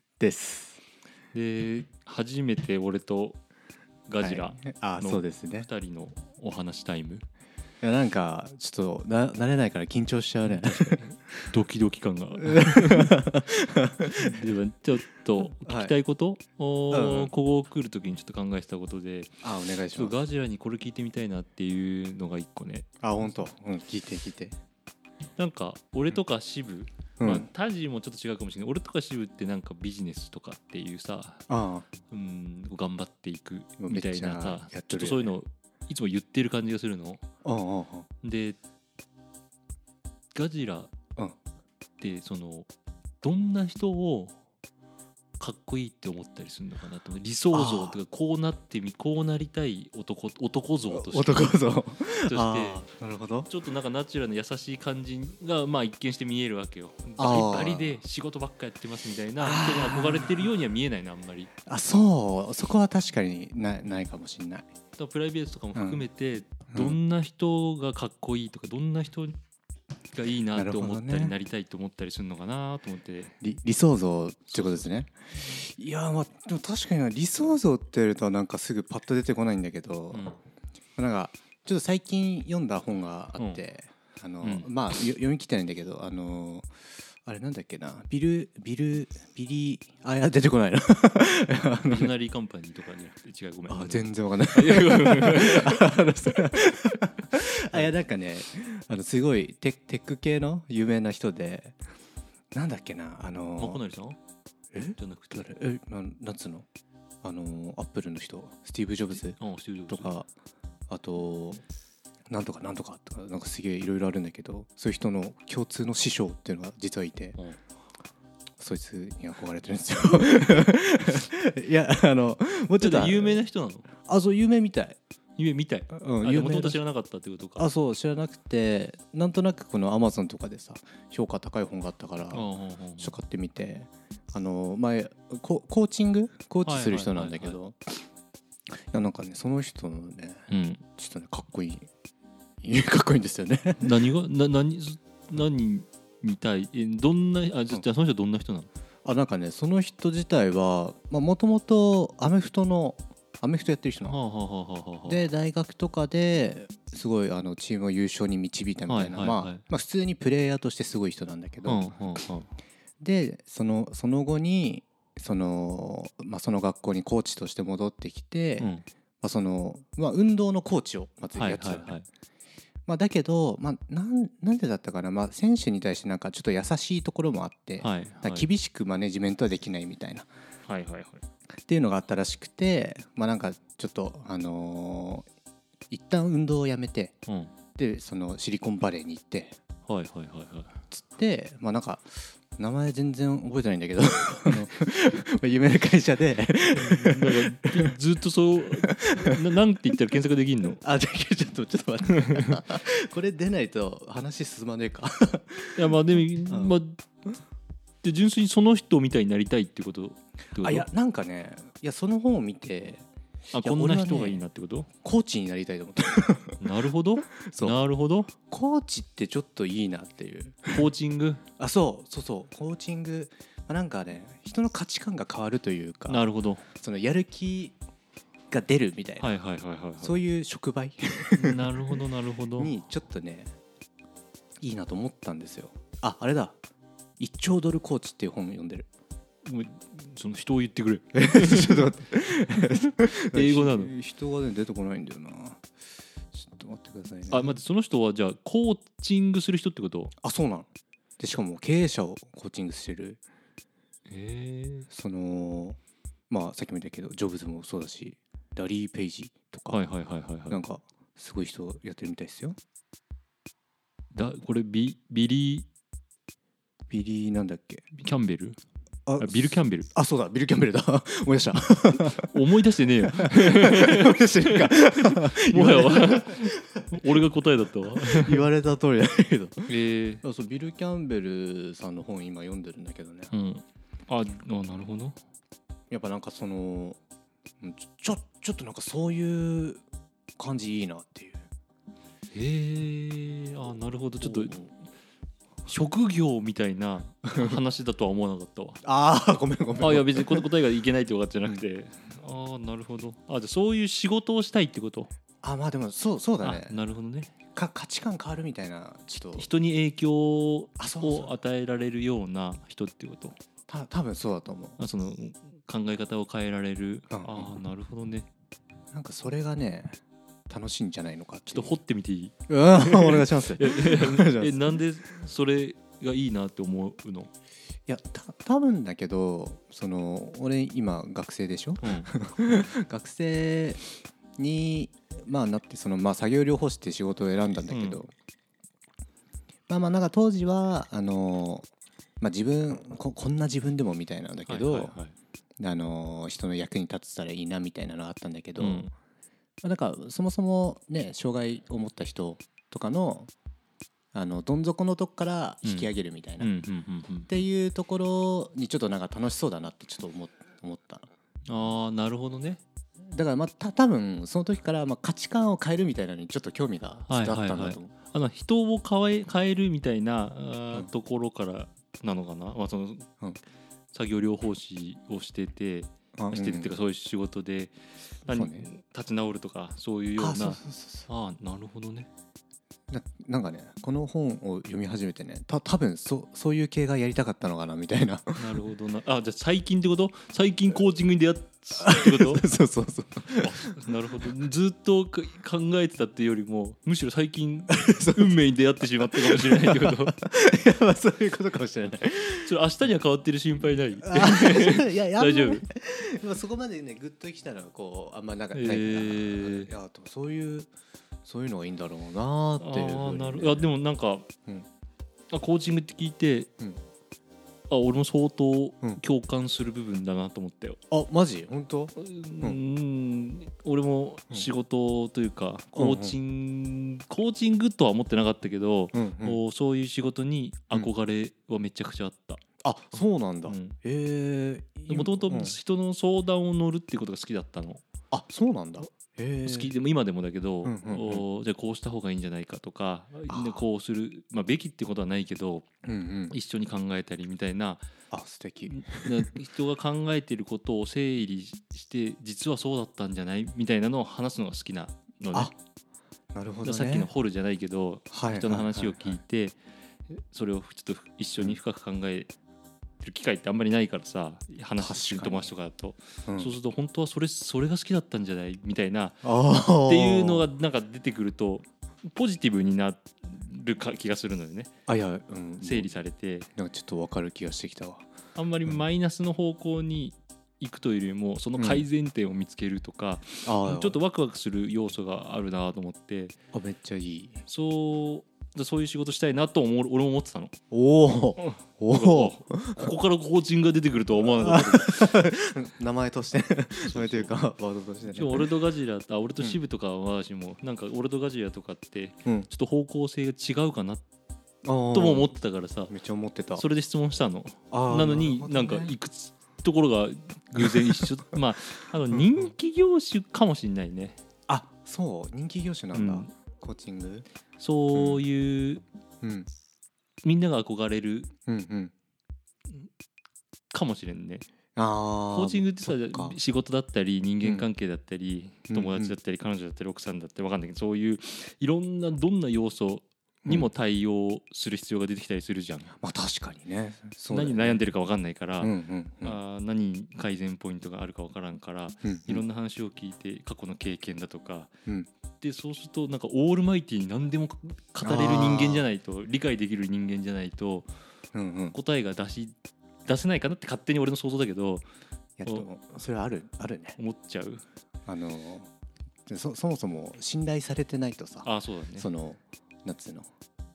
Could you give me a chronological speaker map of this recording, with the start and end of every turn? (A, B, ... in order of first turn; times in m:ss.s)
0:00.2-0:00.8 A
0:01.3-0:03.4 B
0:04.1-0:07.2 B
0:04.2-0:05.7 A
0:07.8-0:11.4 A
0:11.0-0:13.2 B
0:12.4-0:14.4 A
0:14.2-0:23.3 B
0:15.4-0:16.0 A
0:16.9-0:17.3 A
0:19.4-0:20.2 A
0:23.0-0:24.6 A
0:25.4-0:31.5 B
0:27.2-0:27.5 A
0:31.5-0:31.9 A
0:32.1-0:37.2 B
0:33.8-0:35.3 A
0:37.4-0:38.1 A
0:38.2-0:38.6 B
0:40.3-0:40.9 B
0:42.0-0:42.7 B
0:43.2-0:44.3 B
0:45.4-0:52.9 B
0:47.5-0:48.0 A
0:50.9-0:53.5 A
0:53.4-1:01.5 B
0:57.2-0:58.0 A
0:59.4-1:00.5 A
1:01.6-1:04.7 A
1:05.0-1:09.4 B
1:05.7-1:06.0 A
1:06.7-1:07.0 A
1:10.1-1:13.3 B
1:10.5-1:11.3 A
1:13.4-1:20.2 A
1:14.5-1:14.9 B
1:20.1-1:20.4 B
1:21.0-1:26.7 A
1:24.4-1:24.7 B
1:27.2-1:32.1 A
1:31.9-1:36.4 B
1:33.7-1:41.8 A
1:42.5-1:43.8 A
1:43.6-1:44.2 B
1:44.7-1:46.6 A
1:45.0-1:45.5 B
1:47.2-1:50.3 A
1:49.1-1:50.1 B
1:50.9-1:51.6 A
1:52.3-1:57.4 A
1:58.6-2:03.4 A
2:02.8-2:03.9 B
2:04.0-2:05.0 A
2:05.4-2:07.7 B
2:05.9-2:06.8 A
2:07.6-2:18.1 A
2:12.3-2:13.1 B
2:16.6-2:17.5 B
2:18.9-2:21.9 A
2:20.5-2:20.8 B
2:22.6-2:23.9 A
2:23.8-2:28.7 B
2:29.0-2:34.2 A
2:34.1-2:35.3 B
2:35.0-2:42.2 A
2:38.9-2:39.6 B
2:41.6-2:42.5 B
2:43.0-2:51.9 A
2:48.6-2:48.8 B
2:51.3-2:52.0 B
2:52.9-3:00.3 A
2:57.8-2:58.4 B
3:00.6-3:01.2 B
3:01.7-3:05.3 A
3:05.9-3:07.1 A
3:07.3-3:07.5 B
3:07.8-3:09.6 A
3:09.9-3:10.7 B
3:10.9-3:17.9 A
3:16.7-3:20.8 B
3:18.8-3:19.4 A
3:20.8-3:26.8 A
3:22.1-3:22.6 B
3:25.8-3:27.0 B
3:28.0-3:30.9 B
3:30.6-3:33.0 A
3:33.5-3:34.9 B
3:33.6-3:34.4 A
3:35.0-3:36.6 A
3:36.6-3:38.3 B
3:37.4-3:37.8 A
3:38.5-3:40.9 A
3:40.7-3:41.4 B
3:41.6-3:46.2 A
3:46.1-3:46.6 B
3:46.8-3:47.8 A
3:48.5-3:49.3 A
3:49.2-3:50.2 B
3:50.0-3:52.0 A
3:51.3-3:52.7 B
3:52.6-3:53.5 A
3:54.6-3:56.6 A
3:57.2-3:58.8 A
3:59.4-4:01.9 B
4:01.1-4:05.6 A
4:03.3-4:03.9 B
4:06.3-4:07.6 A
4:07.3-4:10.1 B
4:10.2-4:10.7 A
4:11.2-4:13.2 A
4:14.1-4:14.9 B
4:14.9-4:15.8 A
4:16.3-4:19.8 A
4:19.7-4:20.6 B
4:20.5-4:22.6 A
4:24.1-4:25.7 B
4:26.9-4:27.8 A
4:27.9-4:28.6 B
4:29.1-4:32.4 A
4:29.2-4:29.9 B
4:32.1-4:38.4 B
4:33.0-4:37.2 A
4:37.8-4:43.3 A
4:39.7-4:40.2 B
4:43.3-4:45.2 B
4:45.9-4:47.0 A
4:47.6-4:49.8 A
4:50.4-4:51.4 A
4:52.3-4:54.6 B
4:54.2-4:54.7 A
4:55.6-4:58.8 B
4:57.3-4:57.6 A
4:58.8-5:00.4 A
4:59.8-5:05.1 B
5:05.4-5:06.8 A
5:06.4-5:07.3 B
5:07.5-5:09.5 A
5:09.4-5:13.4 B
5:10.8-5:11.4 A
5:13.7-5:14.8 A
5:14.8-5:18.3 B
5:17.1-5:17.5 A
5:18.9-5:20.0 A
5:20.5-5:21.8 A
5:21.5-5:27.3 B
5:22.5-5:24.8 A
5:27.9-5:33.8 A
5:31.8-5:32.7 B
5:34.4-5:38.1 A
5:37.7-5:38.0 B
5:39.7-5:41.7 A
5:42.2-5:45.0 A
5:44.5-5:45.1 B
5:45.6-5:48.9 A
5:48.6-5:48.9 B
5:49.6-5:53.3 A
5:54.1-5:56.5 A
5:55.6-5:57.4 B
5:57.3-6:01.1 A
6:01.5-6:02.6 B
6:03.0-6:07.9 A
6:07.1-6:13.1 B
6:13.9-6:22.1 B
6:16.1-6:16.8 A
6:18.2-6:18.7 A
6:20.2-6:21.1 A
6:22.9-6:28.6 A
6:28.4-6:32.5 B
6:31.8-6:34.3 A
6:33.3-6:40.2 B
6:37.7-6:38.4 A
6:39.0-6:42.5 A
6:42.4-6:45.6 B
6:44.0-6:50.7 A
6:48.5-6:49.7 B
6:51.2-6:53.7 A
6:52.6-6:54.3 B
6:55.3-6:56.5 B
6:57.7-7:00.8 B
7:00.9-7:02.6 A
7:02.0-7:12.4 B
7:05.7-7:06.2 A
7:08.9-7:09.4 A
7:12.6-7:15.6 A
7:13.0-7:13.8 B
7:14.9-7:17.8 B
7:18.1-7:19.7 A
7:19.4-7:25.6 B
7:20.6-7:21.2 A
7:23.3-7:23.6 A
7:25.8-7:26.4 A
7:26.3-7:27.8 B
7:28.1-7:29.2 A
7:28.6-7:35.5 B
7:36.3-7:37.1 A
7:36.6-7:39.6 B
7:38.1-7:39.2 A
7:40.1-7:42.3 B
7:43.0-7:49.2 B
7:44.8-7:45.5 A
7:46.2-7:46.6 A
7:49.2-7:50.5 A
7:49.8-7:54.7 B
7:54.9-7:55.9 A
7:55.6-7:56.5 B
7:56.6-7:58.1 A
7:58.4-8:06.3 B
8:01.6-8:01.9 A
8:03.4-8:04.0 A
8:06.5-8:07.4 A
8:07.5-8:10.5 B
8:10.7-8:12.9 A
8:11.4-8:15.2 B
8:14.2-8:18.5 A
8:16.8-8:17.3 B
8:18.1-8:24.0 B
8:24.6-8:25.3 A
8:24.9-8:25.9 B
8:25.9-8:26.6 A
8:26.5-8:34.2 B
8:27.7-8:29.0 A
8:30.6-8:31.1 A
8:34.5-8:37.2 A
8:35.9-8:36.3 B
8:37.6-8:38.8 B
8:37.9-8:38.2 A
8:39.2-8:39.5 A
8:40.2-8:41.3 B
8:41.5-8:41.9 A
8:43.7-8:44.4 B
8:44.7-8:46.4 A
8:45.3-8:55.9 B
8:47.4-8:47.7 A
8:48.7-8:49.2 A
8:53.4-8:53.7 A
8:56.0-8:57.8 A
8:57.3-9:04.7 B
8:58.6-8:59.4 A
9:02.0-9:02.4 A
9:05.4-9:10.9 B
9:08.0-9:08.9 A
9:11.3-9:11.8 A
9:11.7-9:12.5 B
9:13.0-9:14.9 B
9:15.4-9:17.0 A
9:17.0-9:17.6 B
9:18.0-9:18.7 A
9:19.3-9:23.3 A
9:21.4-9:22.1 B